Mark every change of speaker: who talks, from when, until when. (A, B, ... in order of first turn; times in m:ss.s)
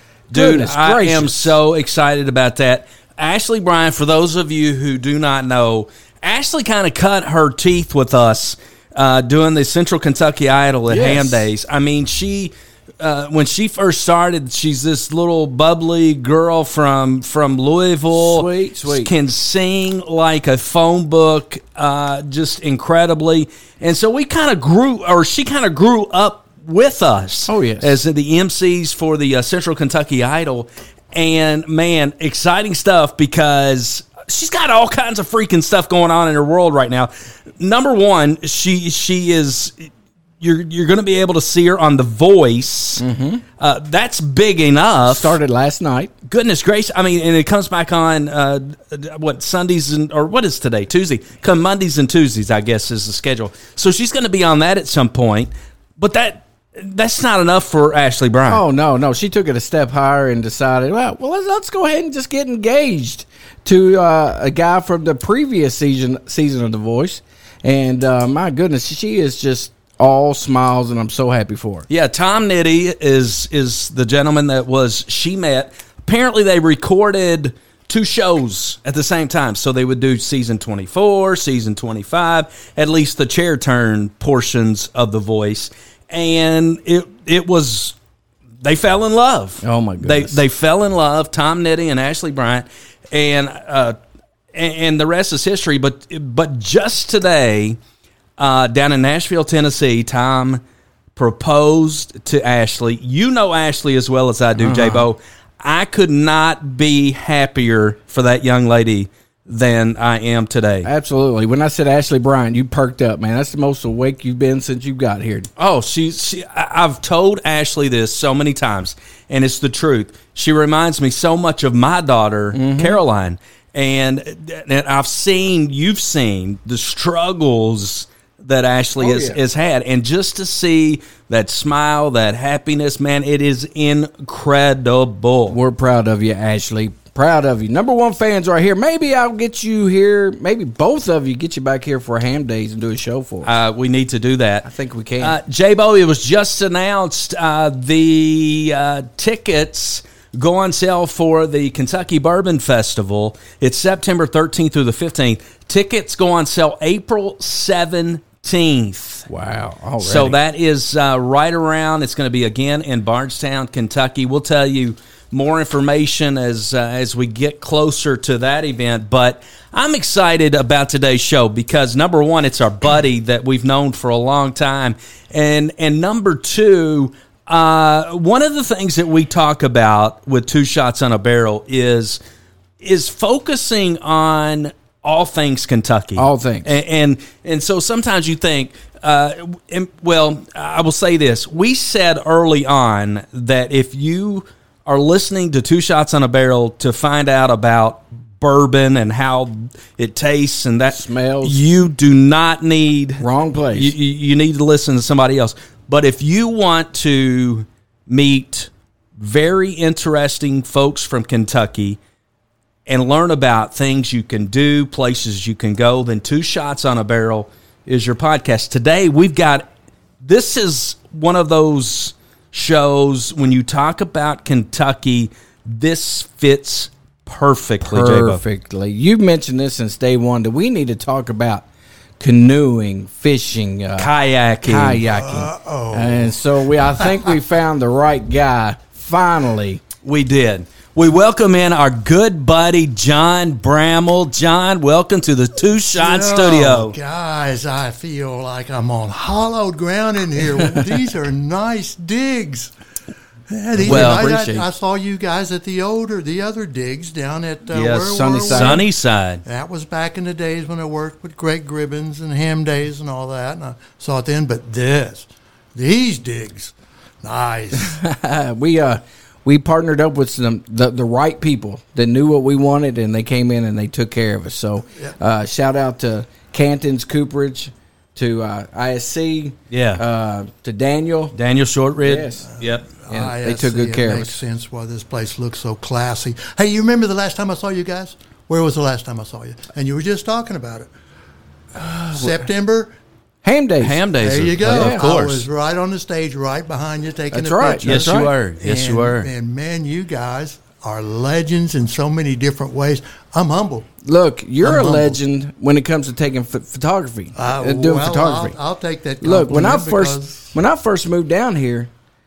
0:00.3-0:43.0 A
0:00.3-0:01.6 B
0:10.9-0:11.5 B
0:18.1-0:19.1 B
0:27.5-0:28.0 B
0:43.0-0:43.4 B
0:43.6-0:45.4 A
0:45.0-0:46.1 B
0:46.3-0:58.6 A
0:58.5-1:11.9 B
1:11.9-1:27.9 A
1:28.6-1:34.0 A
1:29.6-1:30.4 B
1:34.5-1:37.8 A
1:38.4-1:40.6 A
1:41.2-1:50.9 A
1:44.6-1:45.1 B
1:50.8-1:55.5 B
1:55.6-2:15.6 A
2:02.5-2:03.0 B
2:09.0-2:09.4 B
2:15.5-2:23.5 B
2:23.4-2:24.7 A
2:24.6-2:25.4 B
2:25.2-2:39.3 A
2:39.3-2:40.4 B
2:40.0-3:02.2 A
3:02.8-3:32.0 A
3:06.2-3:06.7 B
3:20.9-3:21.6 B
3:23.2-3:23.9 B
3:32.9-3:39.7 A
3:40.2-3:48.4 A
3:47.8-3:51.6 B
3:52.2-3:54.1 B
3:54.0-3:55.0 A
3:54.6-3:59.8 B
3:55.0-3:56.4 C
3:57.0-3:57.3 C
4:00.0-4:07.0 A
4:05.9-4:12.7 C
4:13.5-4:18.9 C
4:13.8-4:14.6 B
4:13.8-4:14.3 A
4:17.7-4:19.4 A
4:18.1-4:18.8 B
4:19.4-4:28.0 C
4:27.8-4:41.3 B
4:39.7-4:40.0 A
4:41.3-4:42.9 A
4:42.0-4:42.4 B
4:42.5-4:50.9 C
4:43.1-4:44.4 B
4:51.8-4:52.4 B
4:52.1-4:53.0 C
4:53.4-4:54.0 B
4:53.8-4:55.5 A
4:54.2-5:03.9 C
4:54.6-4:55.0 B
4:57.3-4:58.3 B
4:57.8-4:59.3 A
5:04.0-5:08.5 B
5:04.6-5:05.2 C
5:07.3-5:10.6 C
5:09.2-5:11.9 B